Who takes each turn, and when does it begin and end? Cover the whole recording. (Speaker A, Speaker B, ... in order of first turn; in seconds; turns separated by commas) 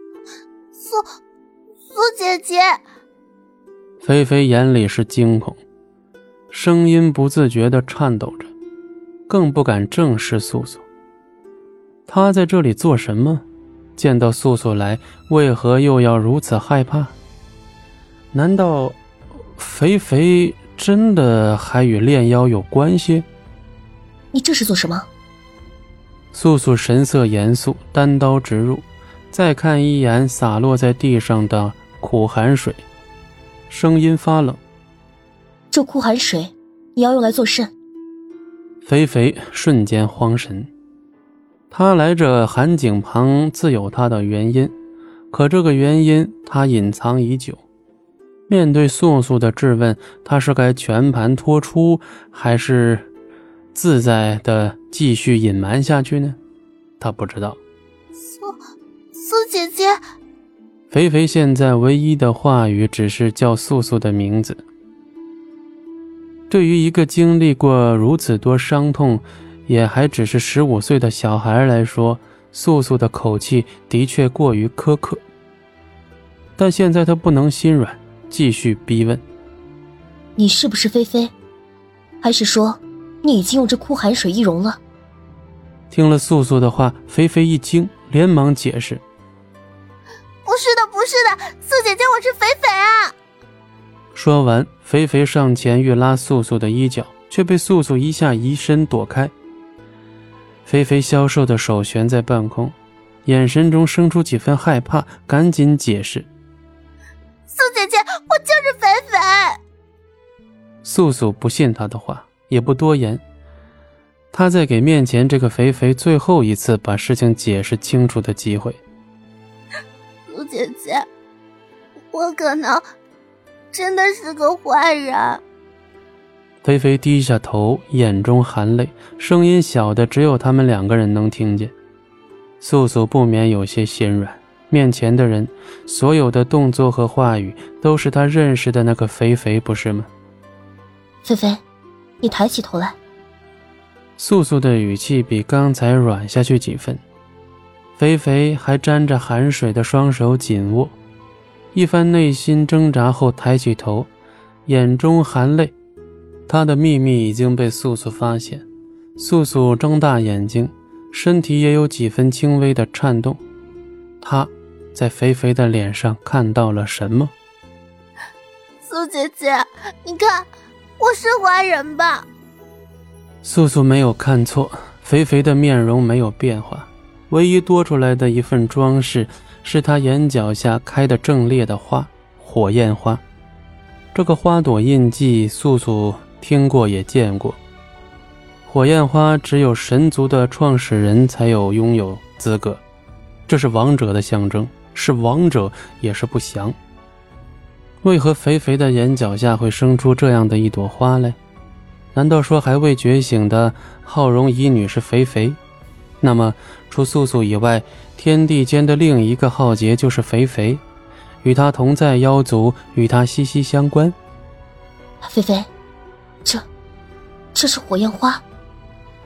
Speaker A: 0.8-1.1, Speaker A: 1.9-2.8, Speaker B: 4.0-5.6, Speaker B: 6.5-8.5, Speaker B: 9.3-10.8, Speaker B: 12.1-13.5, Speaker B: 14.0-17.1, Speaker B: 18.3-19.0, Speaker B: 19.6-23.3, Speaker C: 24.3-25.1, Speaker B: 26.3-32.8, Speaker B: 33.7-34.6, Speaker C: 35.7-37.7, Speaker B: 38.8-40.7, Speaker B: 41.7-44.7, Speaker B: 45.3-47.6, Speaker B: 48.5-53.1, Speaker B: 53.7-56.4, Speaker B: 57.0-57.6, Speaker A: 58.3-58.6, Speaker A: 59.1-60.0, Speaker B: 60.9-64.6, Speaker B: 66.5-75.2, Speaker B: 76.6-79.2, Speaker C: 80.4-81.3, Speaker C: 82.2-84.8, Speaker B: 85.9-89.0, Speaker A: 90.5-93.1, Speaker B: 94.1-99.3, Speaker B: 100.7-106.3, Speaker A: 107.5-109.6, Speaker B: 110.8-113.2, Speaker B: 114.3-118.8, Speaker A: 120.3-121.1, Speaker A: 122.1-122.8, Speaker A: 123.7-125.4, Speaker B: 126.6-131.7, Speaker B: 132.6-140.1, Speaker C: 141.2-141.6, Speaker C: 142.2-143.0, Speaker B: 144.2-147.0, Speaker B: 148.0-151.0, Speaker B: 151.7-154.1, Speaker B: 154.7-155.8, Speaker B: 156.5-158.7, Speaker B: 159.2-163.4, Speaker B: 164.2-167.3, Speaker A: 168.8-170.5, Speaker A: 171.0-172.3, Speaker B: 173.4-183.2, Speaker B: 184.1-187.6, Speaker B: 188.7-192.8, Speaker B: 193.5-196.8, Speaker B: 198.0-201.4, Speaker B: 202.1-205.6, Speaker B: 206.2-210.8, Speaker B: 211.4-214.2, Speaker C: 215.2-215.7, Speaker C: 217.6-218.4